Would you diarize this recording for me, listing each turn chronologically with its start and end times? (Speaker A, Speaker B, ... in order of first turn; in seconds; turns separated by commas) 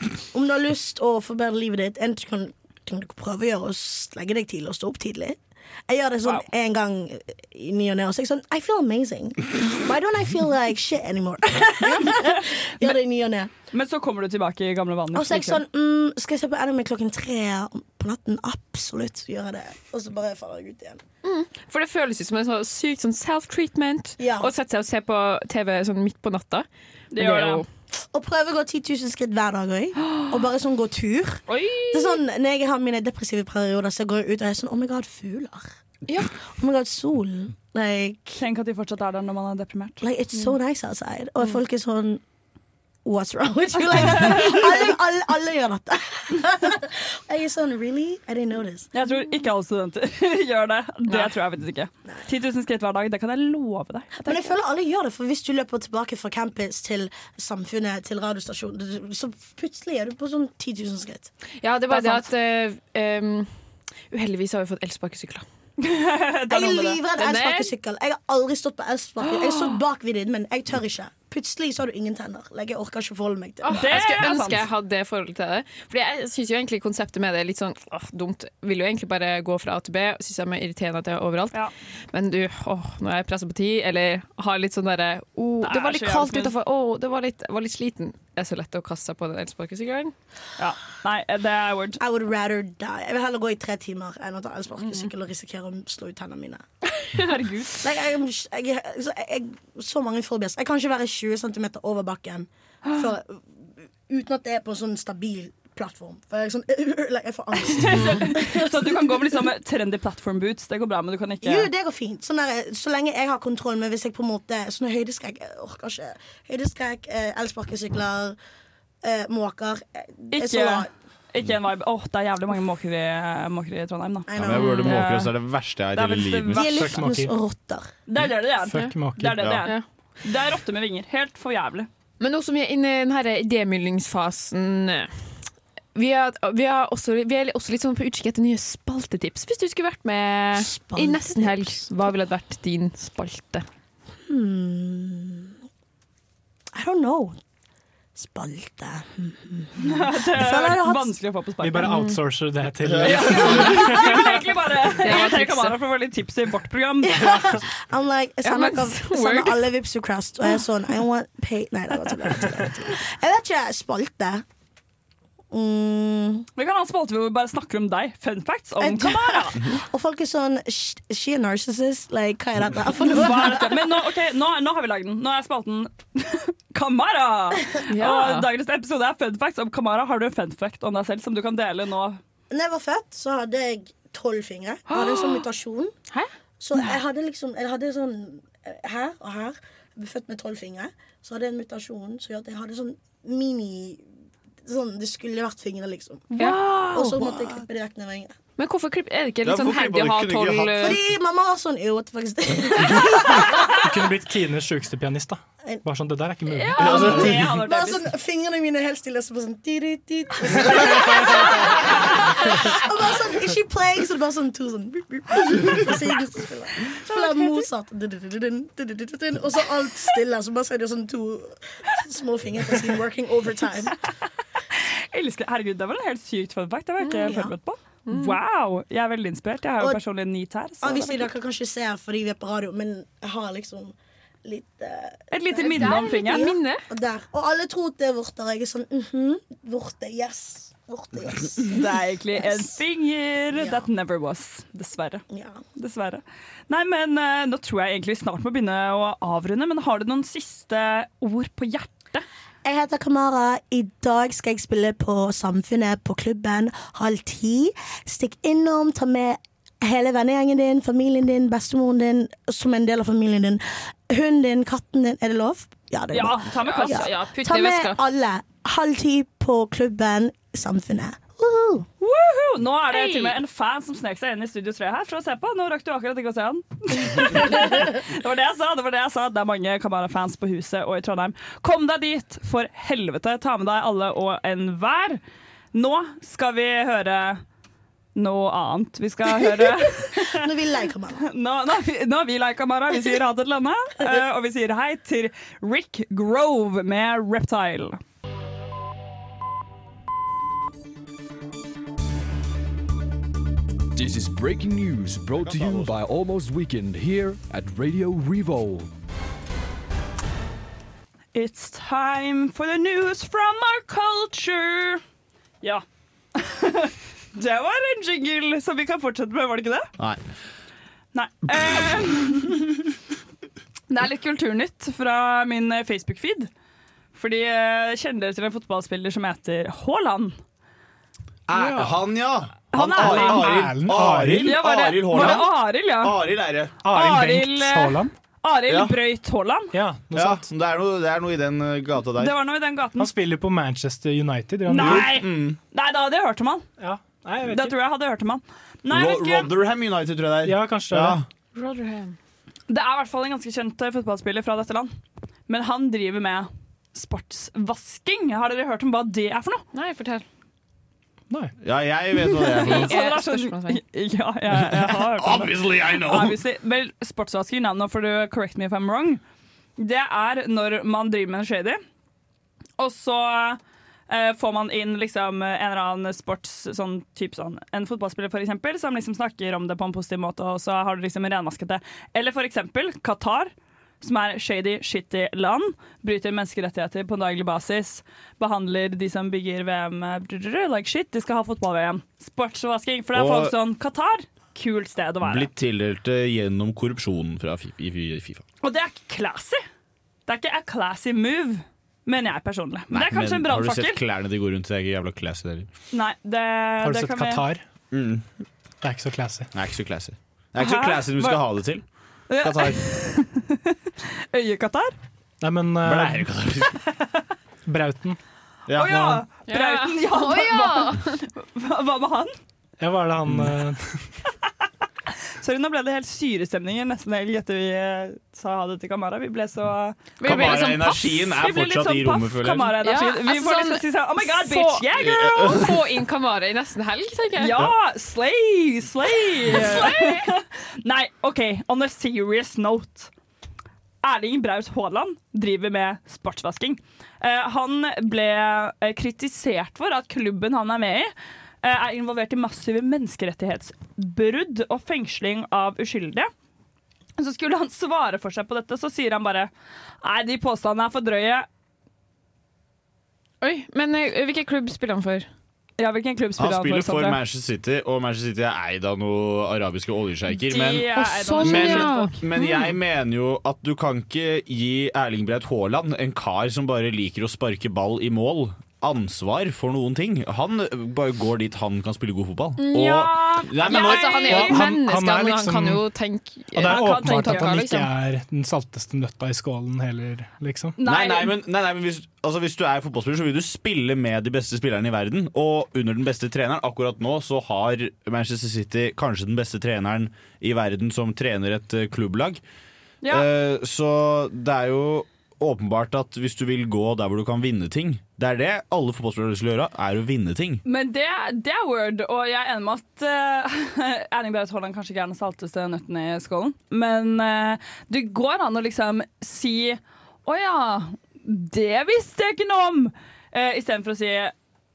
Speaker A: 0.3-13.5, Speaker B: 12.1-12.9, Speaker B: 13.7-15.6, Speaker A: 15.1-21.0, Speaker C: 21.2-27.6, Speaker A: 24.2-24.5, Speaker B: 27.1-27.6, Speaker A: 27.9-35.7, Speaker C: 31.5-32.2, Speaker A: 36.4-38.4, Speaker B: 38.4-40.0, Speaker A: 40.0-42.2, Speaker A: 43.0-48.9, Speaker B: 44.2-44.6, Speaker B: 48.9-54.1, Speaker A: 54.2-61.3, Speaker C: 61.6-63.5, Speaker B: 61.9-62.2, Speaker C: 64.1-65.4, Speaker B: 65.8-67.0, Speaker A: 66.5-74.1, Speaker C: 67.2-67.7, Speaker C: 73.6-81.6, Speaker B: 73.8-74.6, Speaker C: 82.1-90.1, Speaker B: 85.6-86.5, Speaker B: 90.6-92.0, Speaker A: 92.0-96.6, Speaker B: 97.2-97.7, Speaker A: 97.8-103.4, Speaker A: 104.1-109.4, Speaker B: 107.6-111.7, Speaker A: 111.4-118.4, Speaker A: 119.0-120.9, Speaker B: 120.3-125.3, Speaker A: 124.3-124.9, Speaker D: 124.3-126.8, Speaker B: 125.9-126.8, Speaker A: 126.5-127.9, Speaker E: 126.6-127.3, Speaker B: 128.1-131.9, Speaker E: 128.6-129.5, Speaker D: 129.4-129.7, Speaker C: 132.2-135.1, Speaker C: 135.9-143.6, Speaker A: 140.5-141.9, Speaker A: 144.3-145.5, Speaker A: 146.7-147.4, Speaker A: 148.1-151.1, Speaker B: 149.8-151.9, Speaker E: 151.6-154.3, Speaker C: 151.8-152.2, Speaker D: 152.9-153.2, Speaker B: 153.0-157.3, Speaker C: 153.5-154.1, Speaker C: 155.0-155.8, Speaker A: 157.0-164.4, Speaker C: 158.4-159.7, Speaker A: 165.5-166.5, Speaker B: 166.6-169.6, Speaker A: 168.8-173.9, Speaker B: 173.1-182.2, Speaker C: 177.9-178.5, Speaker A: 182.5-185.9, Speaker C: 184.9-185.4, Speaker A: 186.6-194.0, Speaker A: 194.6-198.3, Speaker C: 196.3-197.5, Speaker C: 198.6-201.0, Speaker D: 199.4-201.0, Speaker A: 200.8-203.6, Speaker E: 203.8-207.4, Speaker C: 206.5-207.2, Speaker D: 206.8-207.6, Speaker B: 206.8-208.1, Speaker A: 207.5-224.0, Speaker B: 224.7-231.3, Speaker C: 227.0-227.3, Speaker A: 227.2-227.5, Speaker C: 228.1-228.3, Speaker A: 230.8-242.8, Speaker B: 235.3-236.5, Speaker C: 235.6-236.8, Speaker B: 241.7-245.2, Speaker A: 243.5-243.9, Speaker A: 245.3-245.6, Speaker B: 245.8-252.2, Speaker A: 252.6-271.9, Speaker B: 266.1-267.1, Speaker C: 266.6-268.0, Speaker B: 272.0-285.2, Speaker C: 272.9-273.4, Speaker B: 285.7-287.4, Speaker B: 288.1-290.5, Speaker A: 289.6-291.3, Speaker B: 291.2-298.0, Speaker F: 303.9-308.9, Speaker D: 305.4-306.0, Speaker B: 311.3-315.0, Speaker B: 316.4-319.9, Speaker B: 321.1-322.8, Speaker B: 323.9-326.5, Speaker B: 327.1-330.3, Speaker D: 331.5-336.8, Speaker E: 331.5-332.0, Speaker B: 332.7-333.7, Speaker E: 332.9-335.4, Speaker B: 334.4-336.2, Speaker E: 336.8-338.1, Speaker B: 336.9-339.7, Speaker D: 338.7-338.9, Speaker E: 339.7-340.4, Speaker D: 340.1-342.3, Speaker B: 342.2-343.1, Speaker E: 343.0-345.2, Speaker B: 344.7-346.6, Speaker D: 344.8-345.6, Speaker E: 346.8-347.8, Speaker B: 347.4-349.5, Speaker D: 348.9-351.2, Speaker E: 350.4-351.2, Speaker C: 351.5-352.1, Speaker B: 352.7-354.9, Speaker B: 355.5-359.6, Speaker C: 359.7-360.2, Speaker D: 361.6-363.0, Speaker B: 362.3-369.2, Speaker C: 362.6-363.8, Speaker D: 364.5-366.4, Speaker B: 369.8-371.8, Speaker B: 372.8-395.5, Speaker D: 393.1-393.5, Speaker D: 395.2-398.4, Speaker B: 398.6-399.6, Speaker B: 400.3-404.0, Speaker D: 402.9-405.7, Speaker B: 405.9-407.4, Speaker E: 406.8-407.6, Speaker D: 407.9-408.2, Speaker E: 408.8-409.5, Speaker D: 409.5-411.8, Speaker B: 410.6-411.4, Speaker B: 412.3-413.7, Speaker D: 412.4-412.8, Speaker B: 414.3-414.9, Speaker E: 415.4-416.3, Speaker D: 415.8-416.8, Speaker E: 417.6-418.2, Speaker D: 418.7-419.2, Speaker B: 418.7-422.3, Speaker E: 418.8-419.2, Speaker C: 419.5-421.2, Speaker E: 422.8-424.0, Speaker D: 423.3-423.6, Speaker B: 425.4-435.7, Speaker C: 430.2-431.1, Speaker D: 430.2-432.8, Speaker C: 432.8-437.6, Speaker D: 435.0-435.8, Speaker B: 437.4-443.1, Speaker C: 439.7-440.3, Speaker B: 444.0-451.1, Speaker B: 451.6-456.3, Speaker B: 457.2-459.5, Speaker B: 460.0-461.5, Speaker C: 463.4-465.3, Speaker B: 465.8-467.2, Speaker D: 466.4-484.6, Speaker B: 470.4-472.2, Speaker C: 470.9-472.1, Speaker C: 482.6-487.9, Speaker B: 482.8-484.6, Speaker E: 484.2-485.9, Speaker E: 486.5-490.8, Speaker B: 486.6-487.6, Speaker B: 490.8-491.4, Speaker D: 490.8-502.4, Speaker D: 503.1-510.6, Speaker B: 510.6-524.3